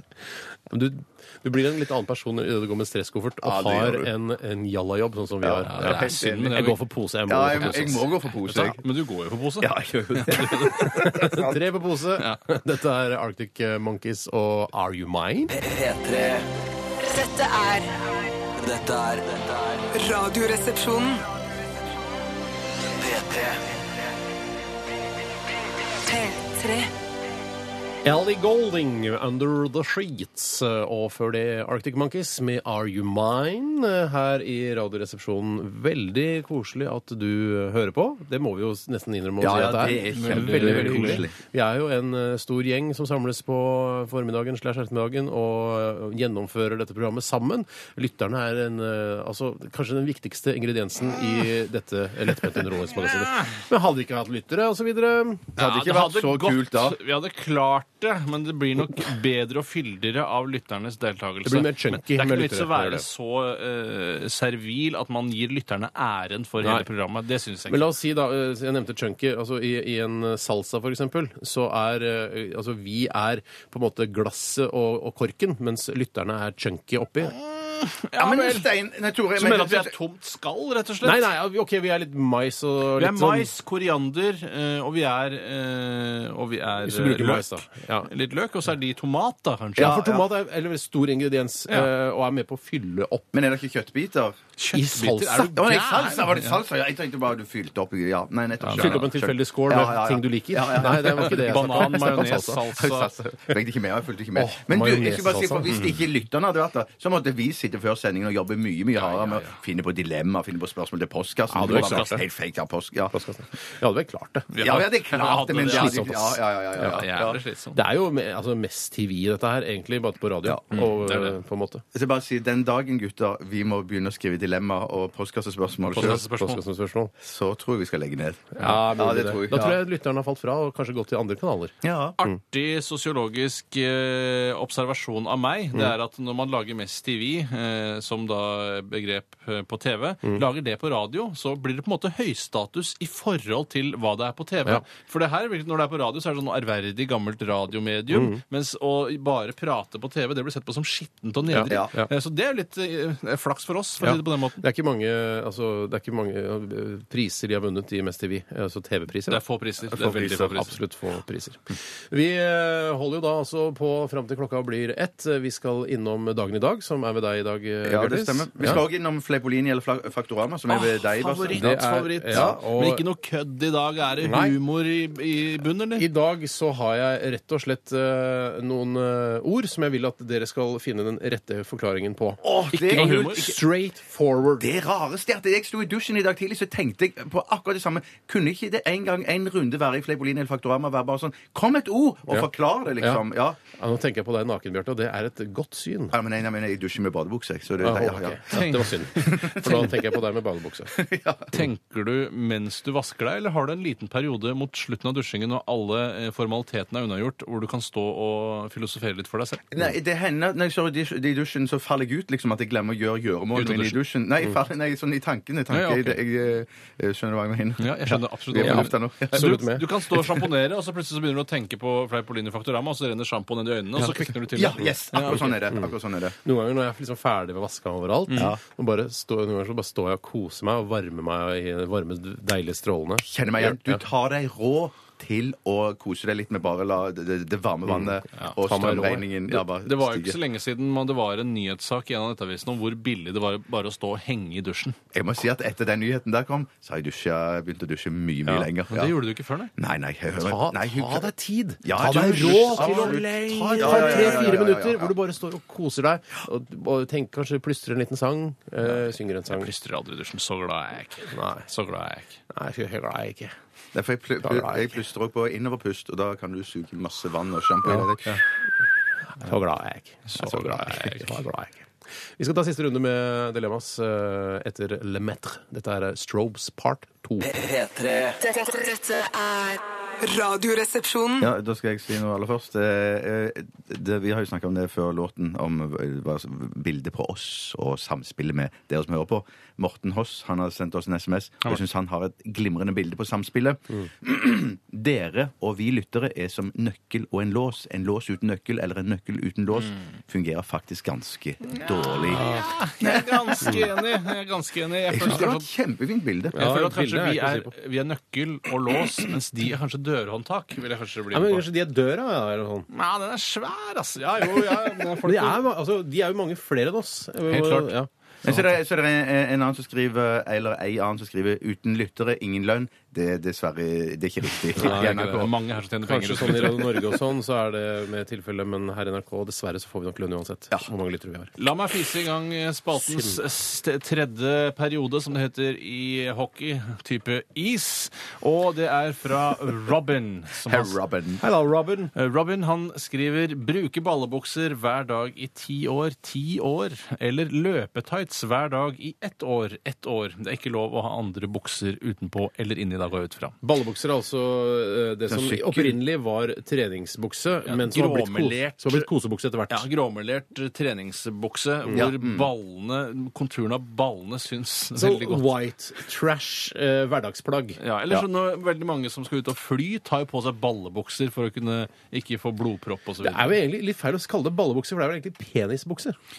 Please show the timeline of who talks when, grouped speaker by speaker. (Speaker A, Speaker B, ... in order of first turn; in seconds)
Speaker A: 0.7-8.1, 10.7-15.5, 28.0-55.5, 61.4-63.0, 67.7-77.3, 81.0-83.5, 86.8-88.1, 89.8-93.3, 94.7-95.8, 98.7-102.6, 104.3-105.7, 111.5-112.2, 113.1-114.5, 115.6-117.0, 117.7-121.8, 125.9-127.1, 128.6-132.3, 148.1-148.4, 151.5-152.1, 154.0-159.4, 160.4-168.8, 171.5-173.0, 174.2-174.6, 175.9-184.7, 193.7-196.2, 197.8-200.9, 218.6-219.9, 225.3-225.9, 226.4-234.0, 237.9-239.2, 250.4-259.7, 261.3-261.7, 262.5-263.5, 264.4-264.9, 269.3-277.5, 302.3-302.6, 306.5-307.7, 311.3-312.9, 314.4-318.1, 324.8-325.5, 326.0-331.5, 333.0-333.4, 341.4-342.1, 353.6-359.9, 364.9-368.2, 373.2-376.1
Speaker B: 3.4-4.1, 5.4-6.7, 7.3-8.8, 9.6-11.6, 39.4-41.3, 55.6-57.0, 78.2-79.9, 89.8-90.2, 93.3-94.4, 95.5-113.1, 114.6-117.4, 120.4-120.8, 121.9-126.2, 127.2-129.8, 131.8-132.2, 159.9-160.6, 167.8-171.8, 172.3-172.6, 182.4-183.6, 184.6-193.6, 196.1-198.5, 199.2-199.9, 200.9-201.6, 209.7-219.6, 224.0-226.3, 233.2-240.4, 245.1-249.2, 249.8-255.1, 263.9-268.4, 281.4-303.7, 305.1-306.6, 318.4-325.5, 340.6-341.4, 355.3-356.0, 361.9-362.5
Speaker C: 5.7-6.8, 7.5-11.1, 40.1-41.3, 55.6-67.9, 77.3-78.7, 79.3-81.3, 83.0-90.0, 94.6-96.5, 98.6-99.1, 101.1-103.1, 109.0-109.6, 111.6-112.1, 114.5-116.1, 116.8-117.8, 120.7-121.3, 125.9-126.6, 132.2-154.6, 159.3-160.8, 170.7-176.1, 182.7-183.5, 198.5-199.5, 201.5-209.7, 213.6-214.0, 215.7-216.2, 217.8-225.6, 239.7-244.9, 248.9-249.7, 252.0-254.6, 258.9-262.4, 270.3-271.4, 301.6-305.6, 306.5-311.6, 312.9-315.6, 317.5-317.9, 324.8-327.1, 331.6-341.0, 342.1-353.6, 357.7-359.1, 359.7-365.5, 367.8-373.6
Speaker D: 15.5-16.4, 18.6-19.9, 23.0-23.6, 277.4-278.4
Speaker E: 17.1-17.9, 19.9-21.2, 26.1-26.9, 278.4-281.5